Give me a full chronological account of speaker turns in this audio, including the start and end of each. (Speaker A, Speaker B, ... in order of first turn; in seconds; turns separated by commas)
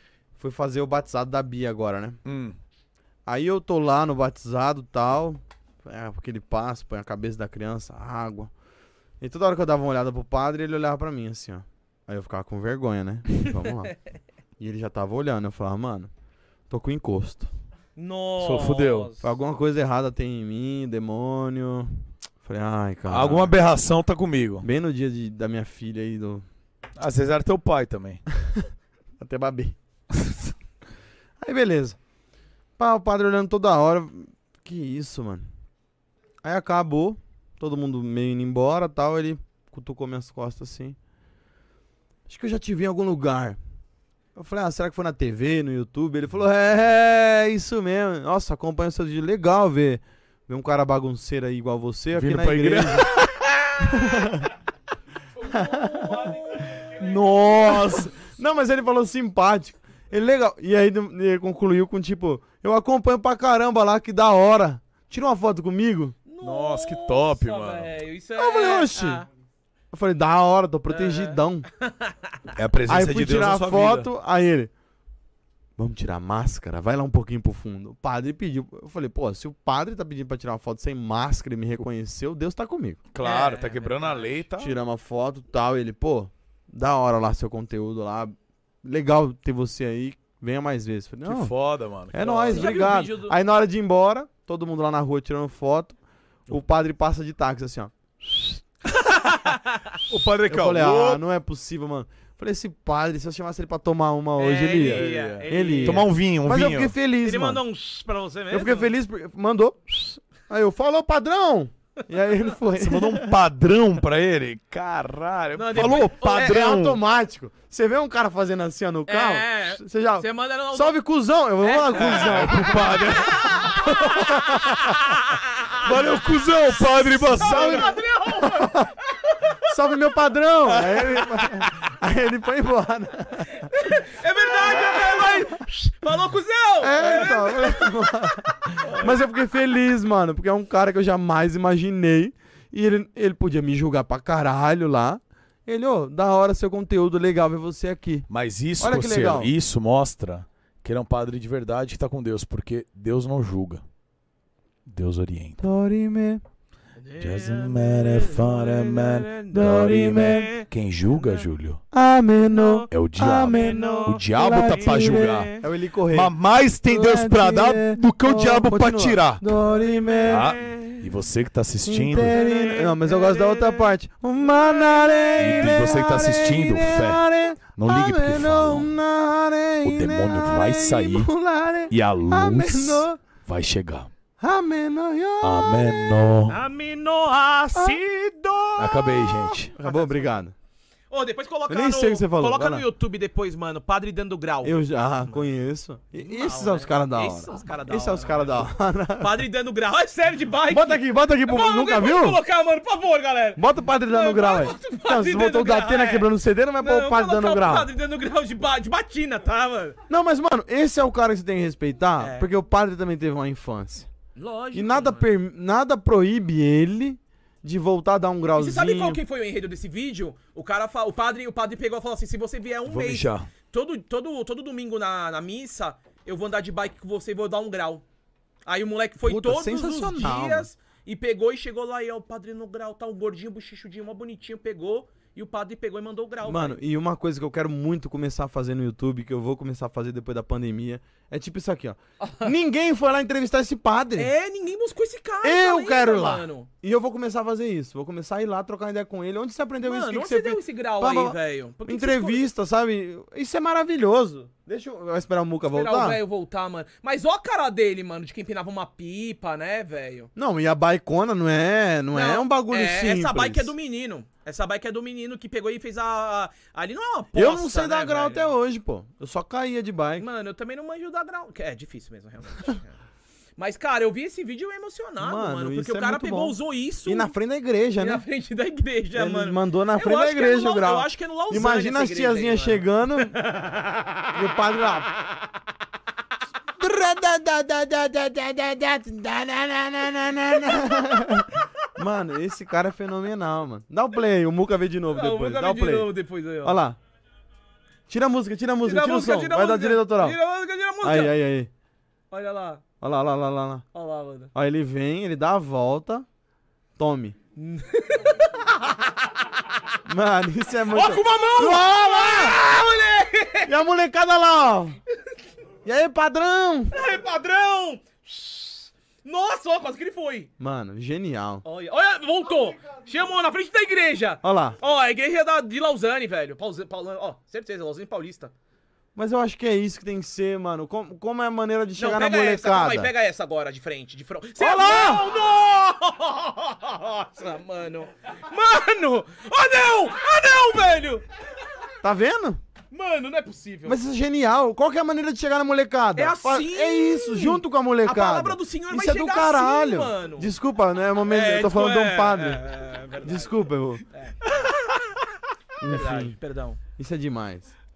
Speaker A: 0.4-2.2, Speaker B: 2.2-2.5, Speaker A: 3.2-8.5, Speaker A: 9.2-13.9, Speaker A: 14.6-16.1, Speaker A: 16.7-17.5, Speaker C: 17.9-19.2, Speaker B: 18.4-19.1, Speaker A: 19.2-23.5, Speaker B: 23.1-24.7, Speaker A: 24.6-26.4, Speaker B: 27.0-28.2, Speaker A: 29.2-29.7, Speaker A: 31.4-32.0, Speaker A: 32.8-35.4, Speaker A: 36.4-41.0, Speaker A: 42.3-43.6, Speaker A: 44.3-53.1, Speaker B: 52.1-53.5, Speaker A: 53.8-54.5, Speaker A: 55.4-66.1, Speaker C: 55.5-57.2, Speaker C: 66.3-69.2, Speaker B: 66.4-67.9, Speaker A: 68.4-69.2, Speaker A: 69.9-71.7, Speaker C: 70.9-72.5, Speaker B: 72.5-74.1, Speaker A: 72.9-74.7, Speaker A: 75.8-83.0, Speaker B: 83.1-84.7, Speaker C: 83.2-84.4, Speaker A: 84.6-91.5, Speaker B: 91.2-92.8, Speaker A: 92.1-96.0, Speaker C: 92.1-93.3, Speaker A: 96.5-98.6, Speaker B: 99.2-101.2, Speaker C: 99.4-99.7, Speaker A: 100.4-107.6, Speaker C: 104.4-106.1, Speaker B: 104.8-106.9, Speaker C: 107.2-108.9, Speaker A: 108.5-113.3, Speaker B: 112.7-117.0, Speaker C: 115.5-116.6, Speaker A: 116.2-123.2, Speaker C: 119.1-121.0, Speaker C: 121.6-122.6, Speaker B: 121.9-125.1, Speaker C: 123.2-125.2, Speaker A: 123.9-124.8, Speaker B: 125.8-127.9, Speaker C: 126.8-129.6, Speaker A: 127.3-128.9, Speaker A: 129.7-133.7, Speaker B: 130.8-131.6, Speaker C: 133.6-138.0, Speaker A: 134.7-135.5, Speaker A: 136.8-149.5, Speaker C: 138.8-139.2, Speaker B: 148.3-153.8, Speaker B: 154.8-155.6, Speaker A: 155.6-156.4, Speaker C: 157.0-161.5, Speaker B: 157.2-161.8, Speaker A: 159.5-160.5, Speaker A: 161.9-166.3, Speaker C: 162.5-165.7, Speaker B: 162.9-165.5, Speaker B: 166.1-169.5, Speaker A: 166.8-170.5, Speaker C: 169.8-171.1, Speaker B: 170.3-172.4, Speaker A: 171.8-183.2, Speaker C: 172.2-173.9, Speaker B: 175.4-177.2, Speaker B: 177.8-178.9, Speaker B: 179.8-181.3, Speaker B: 181.9-184.1, Speaker A: 184.4-186.2, Speaker B: 185.4-186.6, Speaker C: 186.5-190.3, Speaker B: 188.8-189.7, Speaker A: 189.8-190.5, Speaker C: 191.1-195.5, Speaker A: 191.7-192.8, Speaker A: 194.6-199.4, Speaker C: 196.2-206.3, Speaker A: 200.7-202.4, Speaker A: 203.6-207.9, Speaker C: 206.8-210.0, Speaker A: 210.1-214.1, Speaker C: 212.2-212.5, Speaker C: 214.3-215.3, Speaker A: 214.7-219.2, Speaker C: 218.5-228.0, Speaker B: 222.9-223.5, Speaker C: 228.7-236.8, Speaker A: 229.2-230.7, Speaker A: 236.4-244.3, Speaker C: 244.2-246.7, Speaker A: 245.4-256.2, Speaker C: 249.8-252.5, Speaker C: 255.7-260.3, Speaker A: 260.4-263.7, Speaker C: 262.1-268.5, Speaker A: 267.3-270.2, Speaker C: 270.2-273.0, Speaker C: 273.6-277.3, Speaker A: 275.2-278.2, Speaker C: 277.9-284.3, Speaker A: 279.1-283.4, Speaker A: 284.3-285.1, Speaker A: 286.8-296.1, Speaker C: 295.1-296.8, Speaker A: 296.6-297.0, Speaker A: 298.1-300.4, Speaker C: 298.8-301.3, Speaker A: 301.0-301.7, Speaker C: 302.3-302.8, Speaker A: 303.0-303.8, Speaker C: 303.9-304.5, Speaker A: 304.5-306.2, Speaker A: 307.0-307.4, Speaker C: 307.6-309.9, Speaker A: 310.1-312.6, Speaker C: 310.9-313.7, Speaker A: 313.6-315.0, Speaker A: 315.8-317.0, Speaker C: 316.9-320.5, Speaker A: 320.6-321.6, Speaker C: 321.6-328.5, Speaker A: 324.4-324.8, Speaker A: 329.1-333.1, Speaker C: 332.0-341.2, Speaker A: 334.6-335.3, Speaker A: 342.0-342.6, Speaker C: 342.9-344.0, Speaker A: 343.9-352.6, Speaker C: 346.1-350.5, Speaker C: 351.2-355.0, Speaker A: 353.2-354.0, Speaker A: 355.8-356.4, Speaker C: 355.8-356.8, Speaker A: 357.0-357.7